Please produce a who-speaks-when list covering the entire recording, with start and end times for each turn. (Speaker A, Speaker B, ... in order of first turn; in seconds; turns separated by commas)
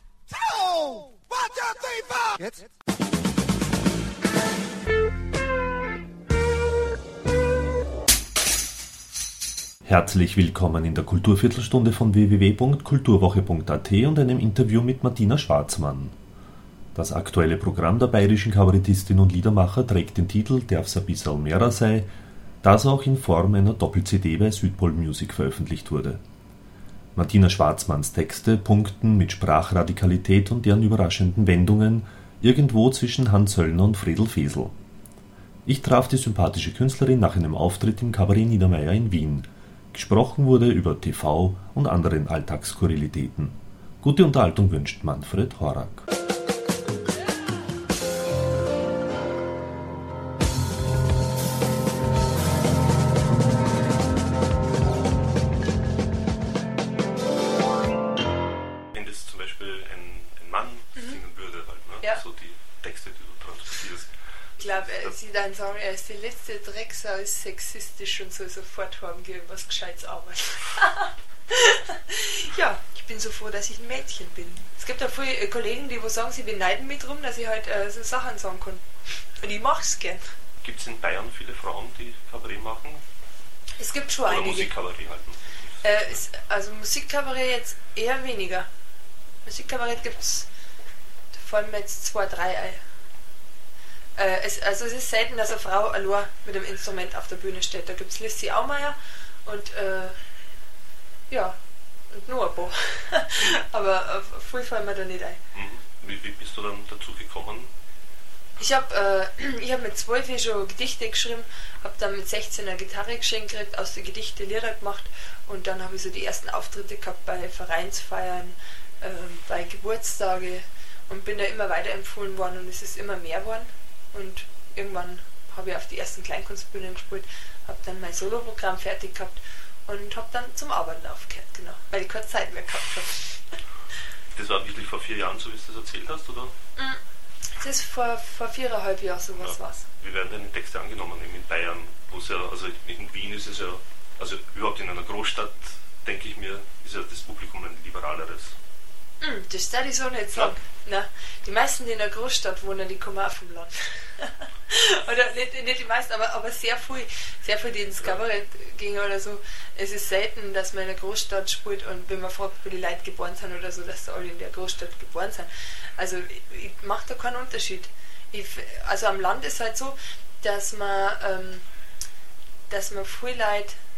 Speaker A: 0.4-2.6, Speaker B: 9.8-16.1, Speaker B: 16.9-22.1, Speaker B: 22.6-26.2, Speaker B: 27.2-34.8, Speaker B: 35.7-46.1, Speaker C: 58.9-64.1, Speaker D: 64.6-80.2, Speaker C: 64.7-65.1, Speaker C: 80.6-83.0, Speaker D: 83.8-84.7, Speaker C: 84.3-85.5, Speaker D: 85.8-88.7, Speaker D: 89.5-90.5, Speaker D: 91.3-92.8, Speaker D: 94.2-100.2, Speaker D: 101.3-101.6, Speaker D: 102.1-105.4, Speaker C: 105.5-107.7, Speaker D: 108.6-133.6, Speaker C: 134.3-136.5, Speaker D: 137.6-139.8, Speaker C: 139.4-148.6, Speaker D: 149.2-171.6, Speaker D: 172.7-173.8